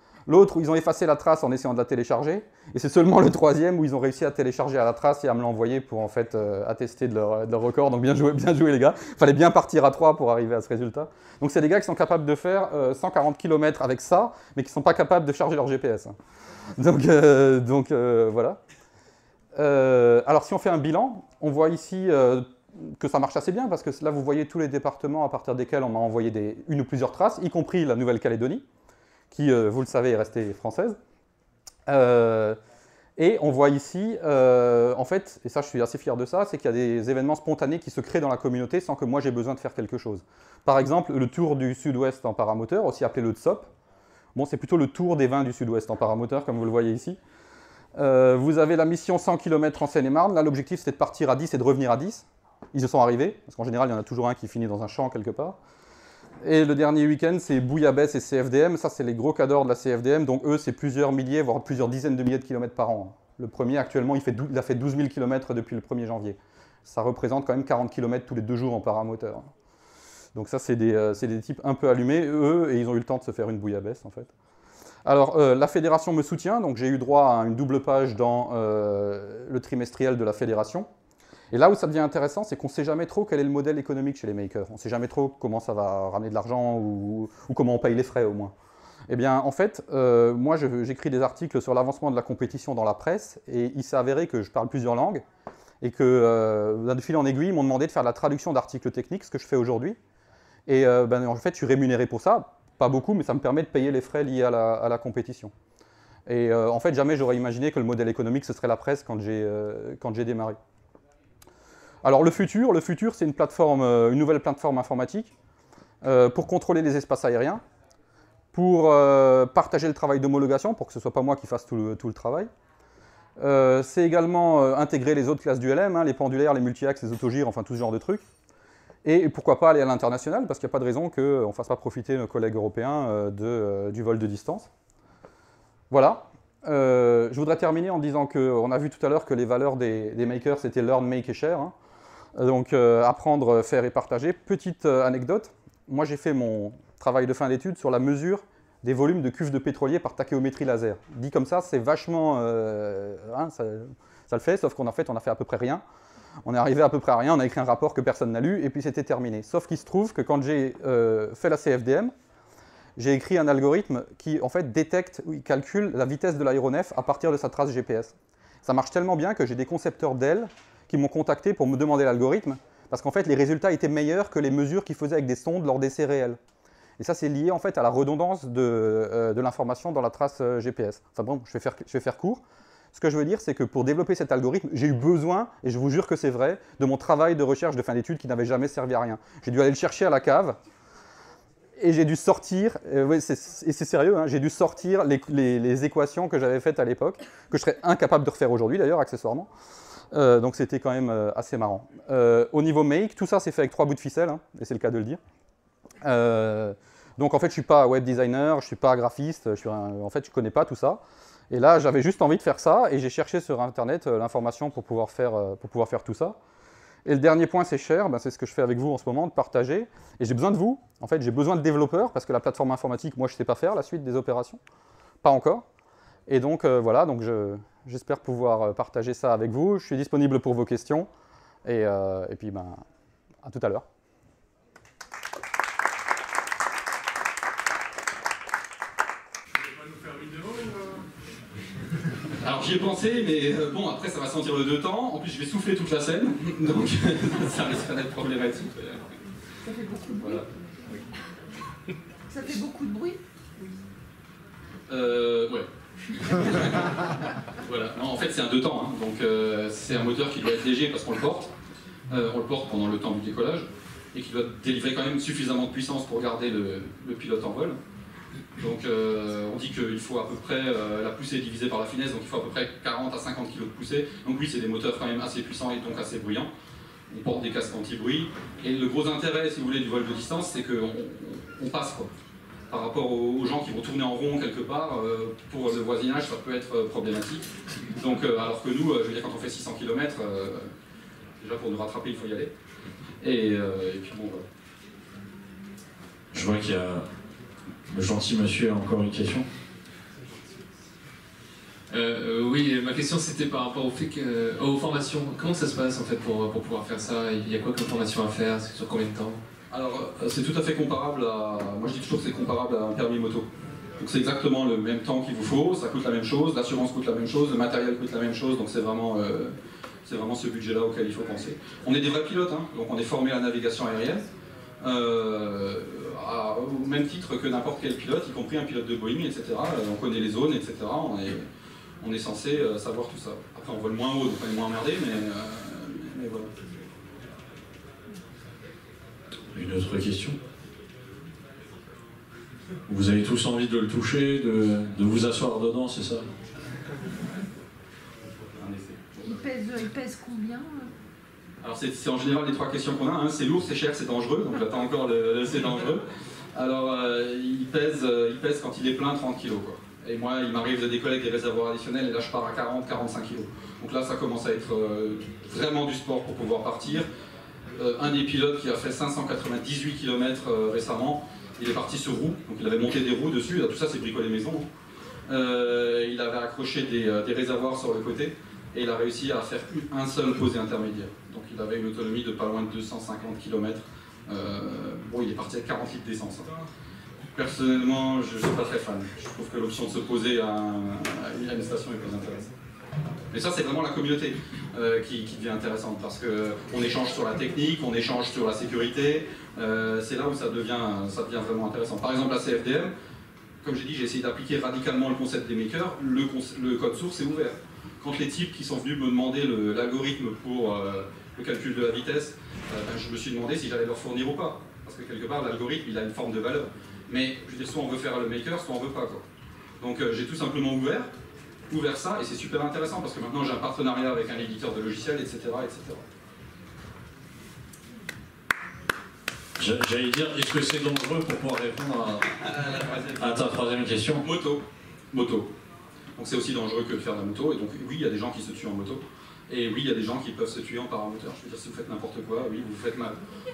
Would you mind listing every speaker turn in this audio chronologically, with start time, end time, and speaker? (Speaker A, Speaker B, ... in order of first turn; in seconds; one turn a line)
Speaker A: 0.3-16.1
Speaker A: 16.8-18.6
Speaker A: 19.5-28.6
Speaker A: 29.3-31.0
Speaker A: 31.9-32.6
Speaker A: 33.2-43.7
Speaker A: 44.3-47.2
Speaker A: 48.0-55.6
Speaker A: 56.4-69.5
Speaker A: 70.3-74.3
Speaker A: 75.0-80.9
Speaker A: 81.5-88.5
Speaker A: 89.1-95.2
Speaker A: 95.8-100.0
Speaker A: 100.7-105.5
Speaker A: 106.3-110.6
Speaker A: 112.0-115.3
Speaker A: 116.0-117.6
Speaker A: 118.5-122.5
Speaker A: 123.4-128.2
Speaker A: 129.0-134.7
Speaker A: 135.9-141.7
Speaker A: 142.3-155.8
Speaker A: 156.4-162.1
Speaker A: 163.0-176.4
Speaker A: 177.0-182.4
Speaker A: 182.9-190.6
Speaker A: 191.8-199.5
Speaker A: 200.1-205.2
Speaker A: 206.0-216.4
Speaker A: 217.1-224.6
Speaker A: 225.2-225.6
Speaker A: 226.3-231.1
Speaker A: 231.6-232.8
Speaker A: 233.4-233.8
Speaker B: 242.4-249.0
Speaker C: 249.6-250.4
Speaker B: 250.2-250.4
Speaker C: 252.3-253.2
Speaker B: 254.9-255.7
Speaker B: 256.2-256.9
Speaker B: 257.6-261.5
Speaker B: 262.1-267.8
Speaker B: 268.6-276.5
Speaker B: 277.1-282.1
Speaker B: 282.7-290.7
Speaker B: 291.4-292.5
Speaker B: 293.2-294.4
Speaker D: 296.3-297.0
Speaker D: 297.9-299.4
Speaker E: 301.9-309.4
Speaker B: 309.7-313.5
Speaker B: 314.0-319.5
Speaker B: 320.1-324.2
Speaker B: 324.8-331.4
Speaker B: 332.0-336.5
Speaker D: 339.5-340.4
Speaker D: 342.9-346.2
Speaker B: 348.5-349.4
Speaker C: 349.2-350.9
Speaker B: 351.6-356.0
Speaker B: 356.5-367.1
Speaker B: 367.8-374.6
Speaker B: 375.3-386.5
Speaker B: 387.3-392.5
Speaker B: 393.3-402.9
Speaker B: 403.6-419.2
Speaker B: 419.8-421.1
Speaker B: 421.7-426.0
Speaker D: 429.6-432.3
Speaker B: 432.6-433.1
Speaker D: 433.2-434.2
Speaker B: 434.2-435.5
Speaker B: 436.1-443.2